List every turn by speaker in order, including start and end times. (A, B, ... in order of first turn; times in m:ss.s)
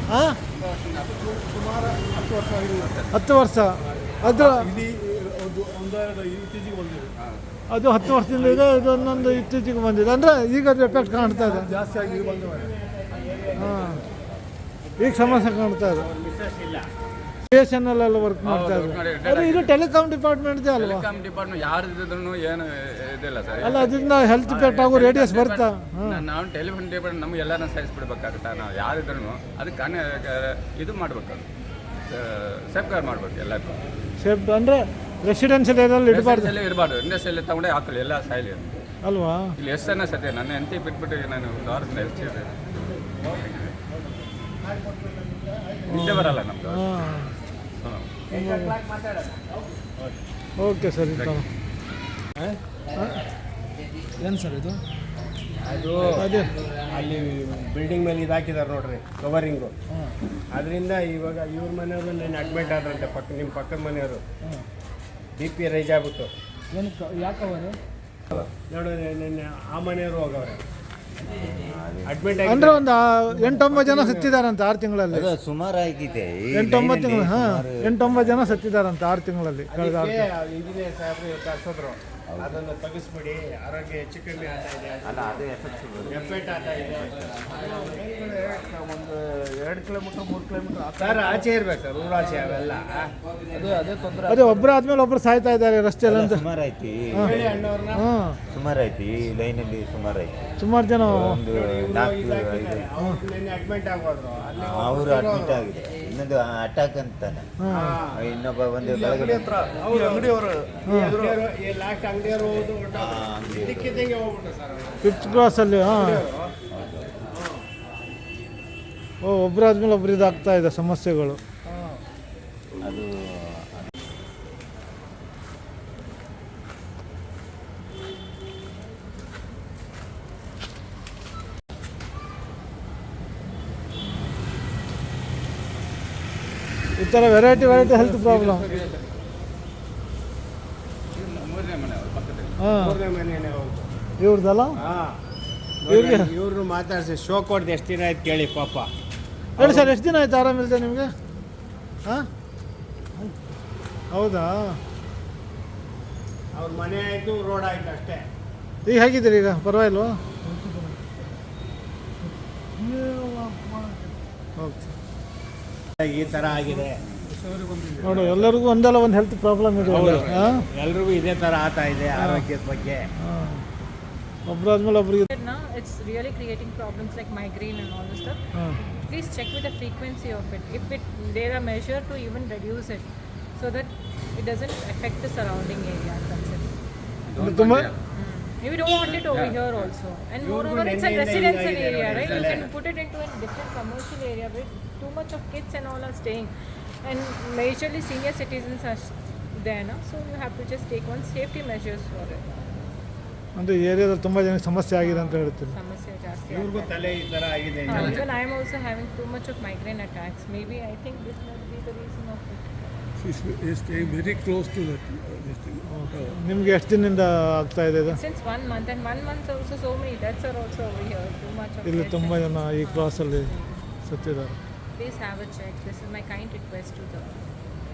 0:00.1-0:00.4 A
0:00.5-0:03.2 B
0:01.4-0:02.9 C
0:03.1-0:04.7 A
0:03.9-0:04.6 B
0:04.3-0:07.1 C
0:07.2-0:07.4 B
0:07.7-0:11.7 A
0:11.2-0:14.2 D
0:11.6-0:12.7 C
0:13.6-0:14.0 A
0:14.9-0:16.9 D
0:15.0-0:16.1 A
0:17.5-0:21.1 A
0:18.4-0:19.7 B
0:20.8-0:31.5 B
0:23.6-0:26.2 A
0:32.1-0:33.8 B
0:34.2-0:36.5 A
0:36.1-0:38.8 B
0:39.0-0:39.6 A
0:39.6-0:42.5 B
0:42.7-0:46.3 D
0:43.3-0:43.8 B
0:45.9-0:46.9 B
0:45.9-0:47.3 A
0:47.8-0:48.1 B
0:48.3-0:50.2 D
0:48.3-0:48.8 A
0:50.6-0:51.5 A
0:51.1-0:51.4 B
0:53.0-0:53.2 A
0:54.2-0:54.8 E
0:55.6-0:56.3 D
0:56.1-0:56.5 A
0:56.9-0:59.7 D
1:00.5-1:04.2 D
1:05.4-1:06.3 D
1:06.7-1:07.7 A
1:08.7-1:10.6 D
1:11.3-1:12.2 F
1:12.1-1:12.8 D
1:12.5-1:15.3 A
1:13.6-1:14.3 D
1:15.1-1:18.5 F
1:16.5-1:20.3 A
1:19.7-1:25.4 D
1:22.3-1:22.6 F
1:25.0-1:26.3 F
1:26.0-1:28.5 D
1:27.7-1:31.5 E
1:31.0-1:33.1 D
1:33.5-1:34.7 E
1:34.3-1:36.4 A
1:36.0-1:37.7 F
1:37.2-1:38.0 D
1:38.0-1:38.4 A
1:38.5-1:42.9 F
1:40.6-1:41.4 A
1:41.5-1:45.6 D
1:44.6-1:47.5 F
1:47.6-1:48.0 A
1:47.7-1:48.2 D
1:48.1-1:49.5 F
1:48.8-1:51.4 E
1:49.8-1:56.5 D
1:50.9-1:51.2 A
1:52.9-1:54.1 F
1:55.0-1:56.2 A
1:56.7-1:57.2 F
1:59.2-2:01.4 A
2:01.7-2:02.0 E
2:02.8-2:03.9 F
2:17.0-2:18.7 A
2:17.5-2:19.2 B
2:21.1-2:22.6 B
2:22.6-2:23.0 A
2:22.7-2:23.9 D
2:24.2-2:24.8 A
2:24.8-2:25.2 D
2:25.8-2:28.9 D
2:25.9-2:26.3 A
2:29.6-2:29.9 D
2:29.6-2:31.1 A
2:34.1-2:34.8 A
2:36.5-2:38.2 D
2:38.9-2:40.9 A
2:42.8-2:44.0 C
2:44.6-2:44.9 A
2:46.0-2:47.0 D
2:46.4-2:48.3 C
2:48.0-2:50.6 A
2:49.8-2:50.6 B
2:49.9-2:53.1 D
2:52.2-2:52.4 A
2:53.2-2:53.6 A
2:54.5-2:55.3 A
2:55.3-3:06.7 G
3:07.3-3:08.0 B
3:07.4-3:07.9 A
3:08.1-3:16.5 G
3:08.9-3:09.9 B
3:10.4-3:12.7 D
3:12.1-3:12.7 B
3:17.0-3:22.5 G
3:23.6-3:25.7 A
3:25.0-3:27.2 G
3:26.5-3:28.3 D
3:27.9-3:33.1 G
3:27.9-3:28.3 B
3:33.2-3:36.4 C
3:33.9-3:34.4 G
3:35.9-3:38.2 A
3:38.1-3:43.8 G
3:41.8-3:44.6 A
3:45.0-3:47.4 G